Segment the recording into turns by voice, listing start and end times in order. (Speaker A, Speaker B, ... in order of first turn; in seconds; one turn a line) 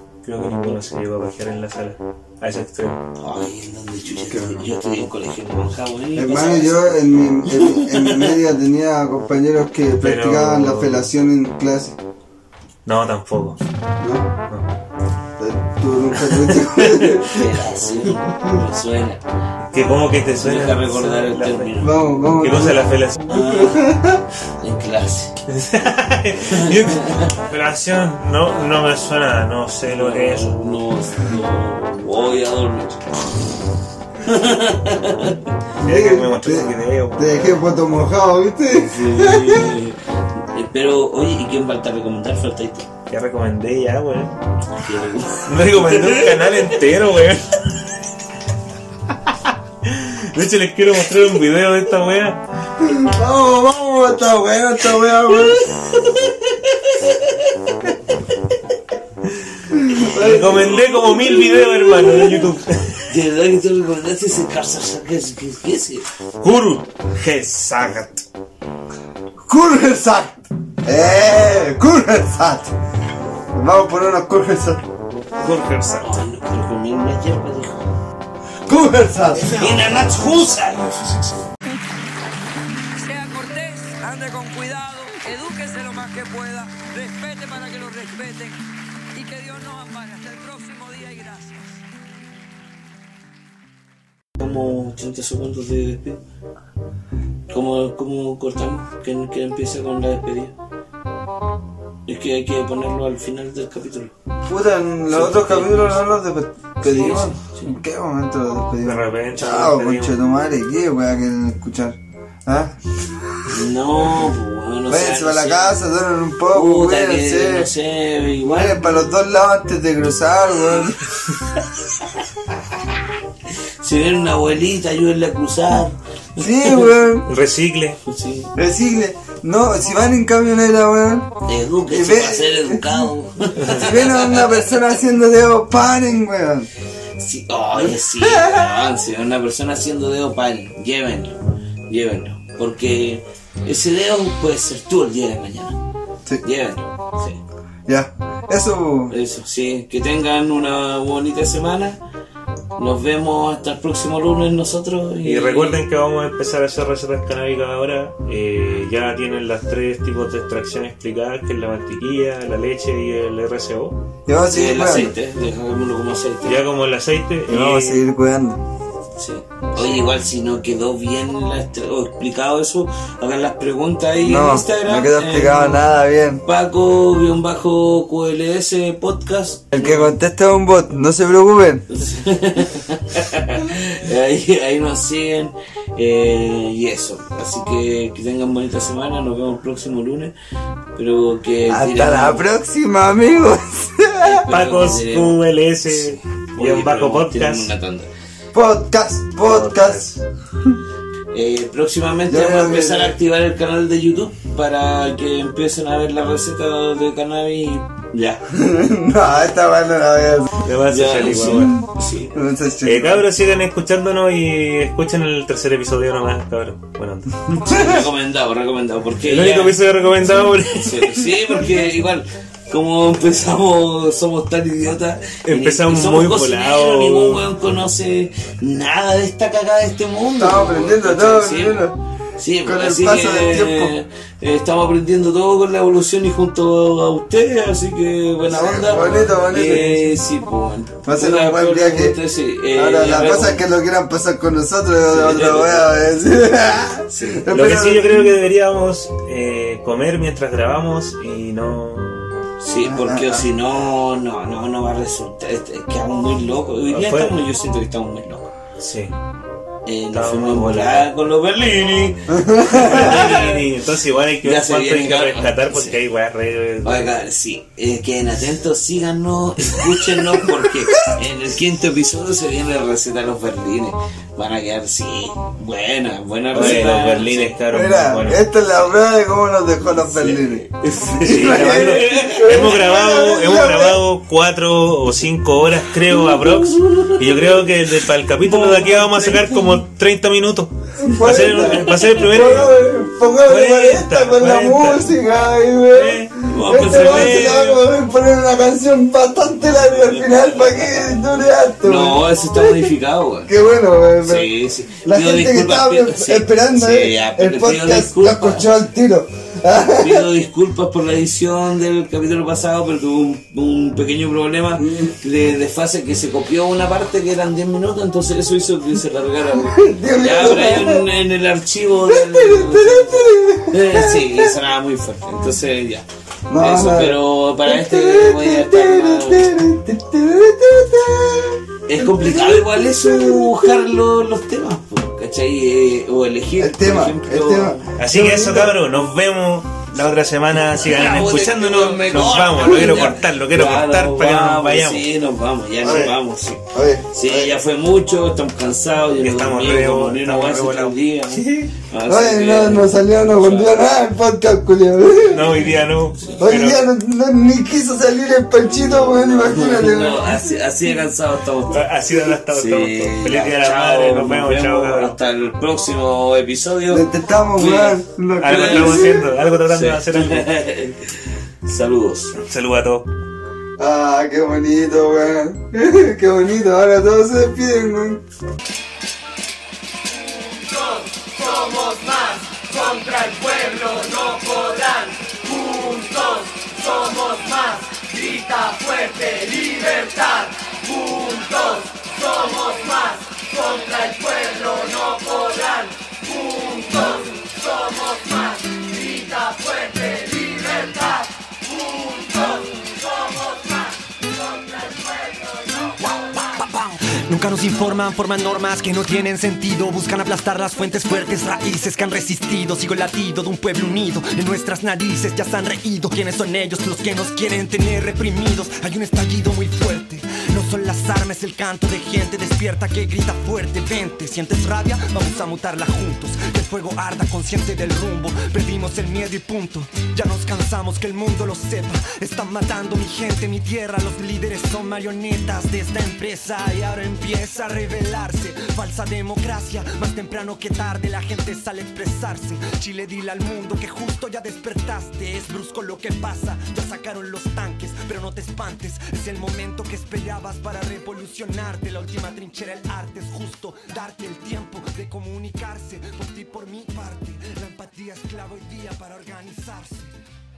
Speaker A: 0.2-3.0
Speaker B: 3.2-8.4
Speaker C: 4.2-4.7
Speaker C: 6.2-12.0
Speaker A: 10.0-11.1
Speaker A: 12.9-13.6
Speaker C: 14.0-14.3
Speaker C: 15.4-17.6
Speaker A: 16.8-17.1
Speaker B: 17.2-19.2
Speaker A: 19.7-21.8
Speaker B: 20.4-22.0
Speaker C: 21.8-24.2
Speaker A: 22.4-23.3
Speaker B: 23.3-23.9
Speaker B: 24.6-25.4
Speaker A: 25.5-30.6
Speaker B: 26.5-27.3
Speaker B: 29.9-33.0
Speaker B: 34.2-35.5
Speaker C: 35.8-39.7
Speaker A: 35.8-37.6
Speaker B: 38.7-40.0
Speaker B: 40.5-42.9
Speaker A: 43.1-44.4
Speaker B: 44.8-46.7
Speaker A: 45.5-47.5
Speaker A: 49.9-52.4
Speaker C: 52.8-55.6
Speaker B: 55.3-57.9
Speaker C: 59.7-60.8
Speaker A: 60.0-63.0
Speaker B: 60.5-62.3
Speaker B: 63.1-66.1
Speaker A: 66.4-68.2
Speaker C: 69.4-72.7
Speaker C: 73.6-74.8
Speaker A: 75.4-76.2
Speaker B: 76.0-77.9
Speaker C: 78.7-79.7
Speaker B: 79.4-81.0
Speaker D: 83.0-88.6
Speaker D: 89.1-91.6
Speaker B: 94.4-96.2
Speaker B: 97.5-100.5
Speaker B: 102.1-104.1
Speaker C: 104.5-113.6
Speaker B: 105.1-106.0
Speaker B: 106.8-107.8
Speaker A: 108.8-110.2
Speaker B: 113.5-115.8
Speaker C: 114.9-117.7
Speaker B: 116.5-119.0
Speaker C: 118.4-121.0
Speaker B: 123.8-126.9
Speaker C: 126.4-127.3
Speaker A: 127.3-128.0
Speaker B: 128.0-128.5
Speaker C: 128.6-131.3
Speaker B: 131.4-134.8
Speaker C: 131.9-133.1
Speaker C: 133.7-136.7
Speaker B: 137.2-141.4
Speaker C: 138.2-138.8
Speaker B: 141.9-145.8
Speaker B: 146.4-147.4
Speaker C: 147.9-149.1
Speaker B: 149.1-152.0
Speaker B: 152.8-155.8
Speaker A: 155.2-164.0
Speaker C: 164.3-165.1
Speaker B: 164.5-166.6
Speaker A: 166.4-168.0
Speaker C: 167.5-168.6
Speaker B: 169.2-175.8
Speaker C: 174.2-176.4
Speaker B: 176.4-180.1
Speaker C: 179.7-181.9
Speaker B: 181.9-190.3
Speaker B: 190.9-192.5
Speaker C: 191.7-194.4
Speaker B: 194.2-198.1
Speaker A: 194.5-197.7
Speaker C: 198.5-200.1
Speaker A: 199.5-200.2
Speaker B: 201.3-208.4
Speaker C: 202.3-203.2
Speaker C: 208.5-210.6
Speaker A: 210.6-211.8
Speaker B: 210.9-212.4
Speaker C: 211.4-211.8
Speaker C: 212.3-213.3
Speaker A: 212.8-217.4
Speaker B: 217.6-243.7
Speaker A: 219.2-221.7
Speaker A: 225.5-227.4
Speaker C: 230.4-231.9
Speaker C: 232.6-233.9
Speaker C: 238.5-240.1
Speaker C: 241.1-242.2
Speaker C: 242.7-248.3
Speaker B: 245.1-246.0
Speaker B: 247.1-247.4
Speaker A: 247.5-252.3
Speaker B: 252.6-258.5
Speaker C: 252.8-253.5
Speaker A: 256.9-257.4
Speaker A: 258.8-259.1
Speaker B: 259.9-263.6
Speaker A: 260.1-261.1
Speaker C: 262.3-263.2
Speaker A: 262.8-267.1
Speaker B: 264.4-266.0
Speaker B: 266.8-277.6
Speaker C: 270.6-271.1
Speaker A: 276.5-278.4
Speaker C: 277.7-284.0
Speaker B: 279.9-282.7
Speaker A: 281.2-295.1
Speaker B: 286.1-287.6
Speaker B: 288.5-289.6
Speaker C: 291.0-302.9
Speaker A: 295.9-297.8
Speaker B: 296.5-297.7
Speaker B: 300.0-301.1
Speaker B: 301.8-303.6
Speaker C: 303.5-304.5
Speaker B: 304.2-308.7
Speaker C: 305.1-310.3
Speaker B: 310.0-326.1
Speaker C: 314.8-315.1
Speaker C: 319.5-321.1
Speaker C: 322.1-324.6
Speaker C: 326.5-333.8
Speaker B: 326.6-329.6
Speaker B: 331.9-337.9
Speaker C: 336.6-338.8
Speaker A: 338.0-345.1
Speaker B: 340.6-353.8
Speaker C: 342.6-343.0
Speaker C: 345.8-347.6
Speaker A: 349.2-351.7
Speaker C: 352.1-355.7
Speaker A: 355.3-356.9
Speaker B: 356.1-356.4
Speaker C: 356.4-360.5
Speaker B: 358.7-361.9
Speaker A: 361.7-365.2
Speaker B: 362.5-367.1
Speaker C: 366.9-369.3
Speaker B: 367.6-372.4
Speaker A: 368.4-370.5
Speaker A: 372.5-373.1
Speaker C: 373.8-378.2
Speaker D: 381.2-397.2
Speaker D: 399.3-401.2
Speaker D: 401.8-402.4
Speaker E: 406.6-460.2